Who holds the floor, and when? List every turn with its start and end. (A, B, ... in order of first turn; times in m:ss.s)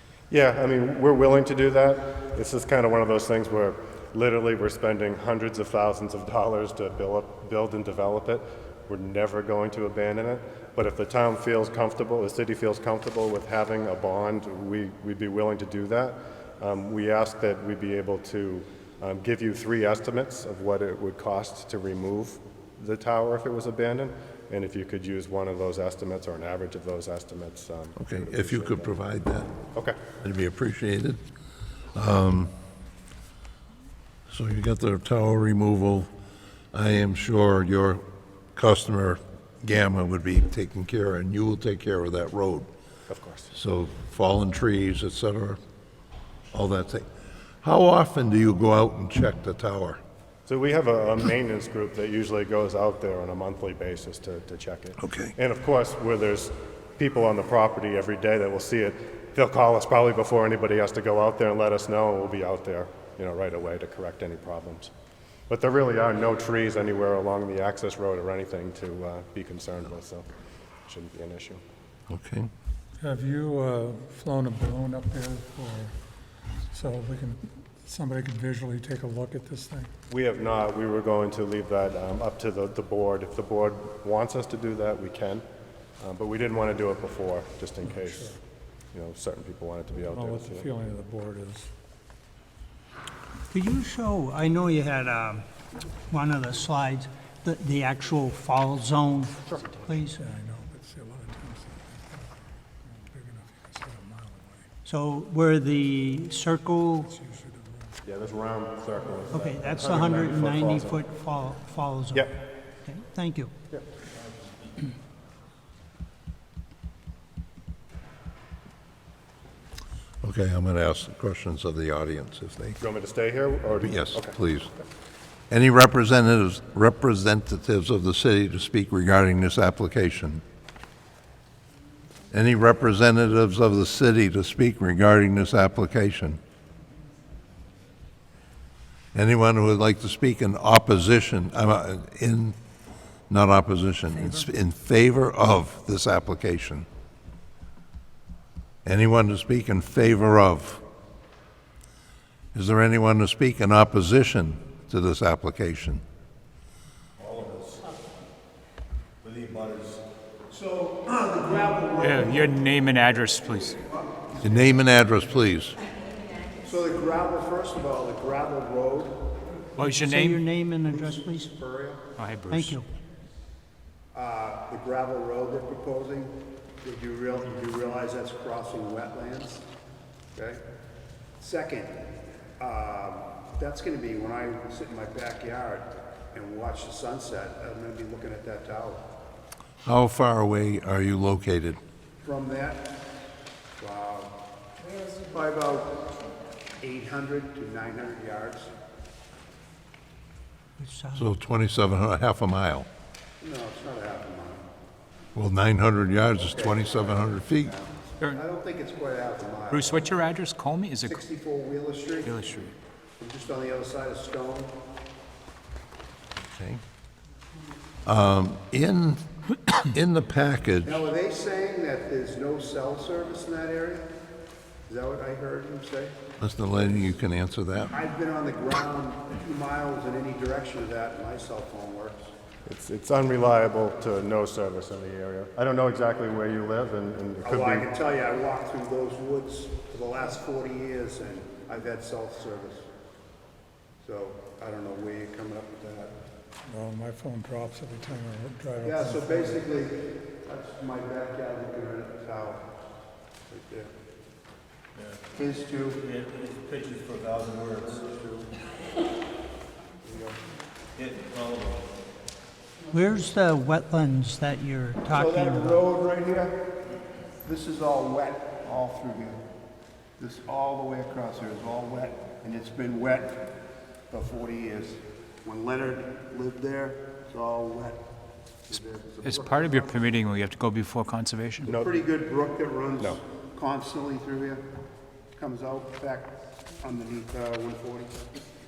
0:00.3-0:28.9 A
0:28.0-0:29.5 B
0:30.2-0:31.2 B
0:31.9-0:32.5 B
0:34.3-0:36.1 B
0:36.7-0:38.0 B
0:38.6-0:42.7 B
0:43.1-0:43.5 A
0:43.5-0:45.6 B
0:46.5-0:47.1 B
0:47.6-0:50.0 B
0:50.5-1:04.9 A
0:55.0-0:55.3 B
1:05.5-1:10.3 A
1:10.9-1:11.6 A
1:12.1-1:12.5 B
1:13.0-1:15.9 C
1:16.7-1:19.9 C
1:20.1-1:25.4 A
1:26.0-1:28.4 A
1:27.9-1:28.3 C
1:28.9-1:30.6 A
1:30.0-1:31.7 C
1:33.5-1:35.4 D
1:36.1-1:40.2 D
1:39.7-1:44.7 C
1:44.8-1:47.1 D
1:47.0-1:48.0 C
1:48.0-1:51.0 A
1:49.3-1:52.3 D
1:52.8-1:53.5 D
2:00.2-2:02.8 B
2:02.8-2:04.3 A
2:03.8-2:04.7 B
2:05.5-2:10.4 B
2:12.3-2:16.4 B
2:19.1-2:22.6 B
2:23.3-2:26.9 B
2:28.8-2:30.8 B
2:32.5-2:36.0 B
2:37.2-2:38.0 E
2:39.2-2:40.0 E
2:40.5-2:44.8 F
2:42.0-2:43.8 G
2:44.4-2:45.8 B
2:46.6-2:49.4 F
2:49.8-2:50.4 G
2:50.0-2:51.5 D
2:50.8-2:52.0 F
2:52.2-2:52.8 G
2:52.5-2:52.8 D
2:54.1-2:59.6 F
3:00.3-3:00.6 F
3:01.4-3:02.0 F
3:02.6-3:09.0 F
3:09.8-3:11.8 B
3:12.2-3:13.0 F
3:13.8-3:14.3 F
3:15.0-3:16.0 F
3:16.8-3:18.7 F
3:20.8-3:21.3 D
3:21.1-3:22.9 B
3:23.4-3:24.6 F
3:25.3-3:27.7 B
3:26.4-3:30.1 F
3:29.7-3:31.2 G
3:31.0-3:32.4 F
3:32.2-3:32.7 G
3:33.2-3:34.7 F
3:36.4-3:36.8 B
3:38.0-3:39.2 B
3:39.8-3:41.1 B
3:40.8-3:44.1 F
3:44.9-3:46.1 F
3:46.4-3:47.9 B
3:47.9-3:52.3 F
3:52.6-3:57.9 A
3:57.4-4:02.9 F
4:04.0-4:06.1 F
4:06.7-4:09.6 C
4:08.8-4:12.6 F
4:13.5-4:13.9 F
4:15.3-4:16.0 F
4:16.0-4:18.5 E
4:20.0-4:20.4 F
4:21.0-4:21.8 E
4:22.9-4:25.8 D
4:25.1-4:26.7 F
4:27.4-4:29.4 F
4:30.2-4:33.5 F
4:34.1-4:38.0 F
4:38.7-4:40.1 F
4:39.2-4:41.7 G
4:41.6-4:44.6 F
4:41.6-4:42.0 A
4:45.4-4:48.3 F